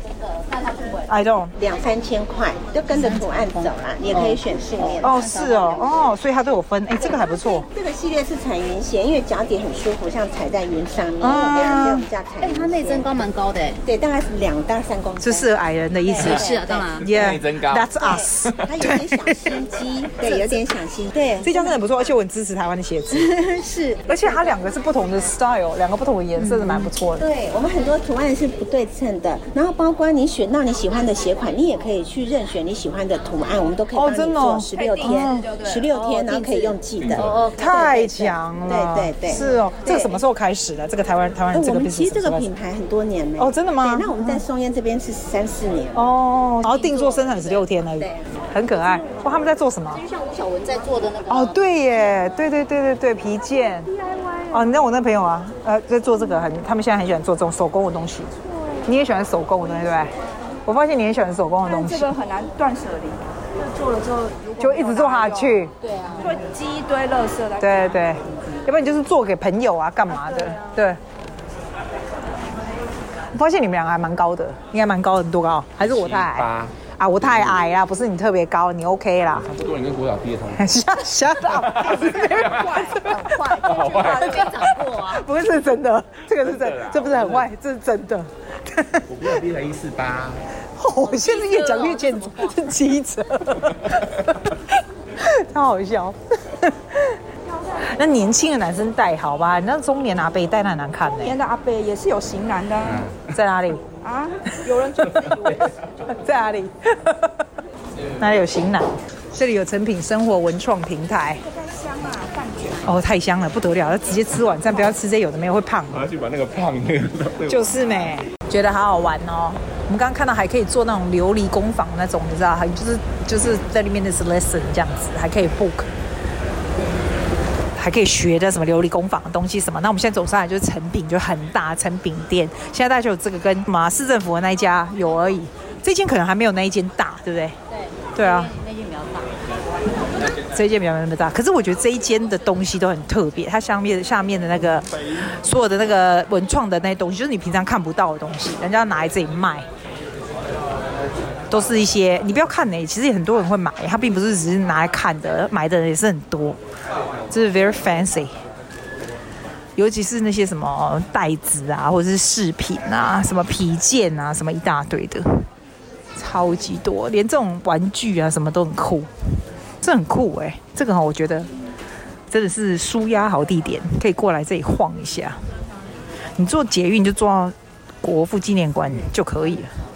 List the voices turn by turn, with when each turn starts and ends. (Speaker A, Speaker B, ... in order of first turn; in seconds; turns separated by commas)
Speaker A: 0.2-1.1, Speaker B: 1.1-1.6, Speaker C: 1.6-5.3, Speaker A: 3.0-4.3, Speaker B: 4.1-4.4, Speaker A: 4.8-6.0, Speaker B: 5.0-7.7, Speaker C: 7.4-13.2, Speaker B: 11.2-12.1, Speaker A: 12.4-13.8, Speaker C: 13.8-15.5, Speaker B: 15.2-16.5, Speaker C: 16.1-16.9, Speaker A: 16.2-17.1, Speaker B: 17.0-19.6, Speaker D: 17.0-18.7, Speaker C: 18.0-21.8, Speaker B: 20.2-20.6, Speaker B: 21.4-23.3, Speaker C: 23.1-24.6, Speaker B: 24.1-27.3, Speaker C: 27.1-40.2, Speaker B: 33.9-35.5, Speaker E: 34.8-35.9, Speaker A: 35.9-37.5, Speaker D: 37.0-37.4, Speaker B: 37.5-42.5, Speaker C: 41.5-46.1, Speaker B: 43.4-44.5, Speaker B: 45.9-50.0, Speaker A: 46.6-48.1, Speaker A: 49.9-52.2, Speaker B: 51.3-53.9, Speaker E: 54.1-54.6, Speaker B: 54.5-58.3, Speaker B: 58.9-60.1, Speaker B: 60.7-62.1, Speaker E: 61.6-68.1, Speaker B: 64.6-65.7, Speaker A: 65.8-66.4, Speaker B: 67.6-71.0, Speaker B: 73.3-79.5, Speaker D: 75.8-76.8, Speaker D: 77.3-77.6, Speaker D: 79.4-80.7, Speaker B: 80.6-83.5, Speaker D: 81.6-82.3, Speaker E: 81.8-84.7, Speaker D: 83.6-84.3, Speaker A: 83.9-85.3, Speaker B: 84.2-89.0, Speaker D: 86.4-87.5, Speaker D: 89.1-90.4, Speaker B: 90.8-97.2, Speaker A: 91.0-92.7, Speaker B: 97.8-101.3, Speaker E: 101.1-103.1, Speaker B: 103.2-103.8, Speaker E: 104.0-105.7, Speaker B: 106.1-107.4, Speaker B: 108.2-111.4, Speaker E: 111.5-112.9, Speaker B: 112.8-116.0, Speaker D: 115.9-118.0, Speaker B: 117.5-125.9, Speaker B: 127.8-137.6, Speaker A: 137.7-139.3, Speaker B: 138.2-138.6, Speaker B: 140.4-144.9, Speaker B: 145.4-149.7, Speaker B: 151.5-156.6, Speaker B: 157.3-158.3, Speaker B: 159.8-165.4, Speaker B: 166.2-169.1, Speaker B: 169.8-171.5, Speaker B: 172.3-175.4, Speaker B: 176.4-179.7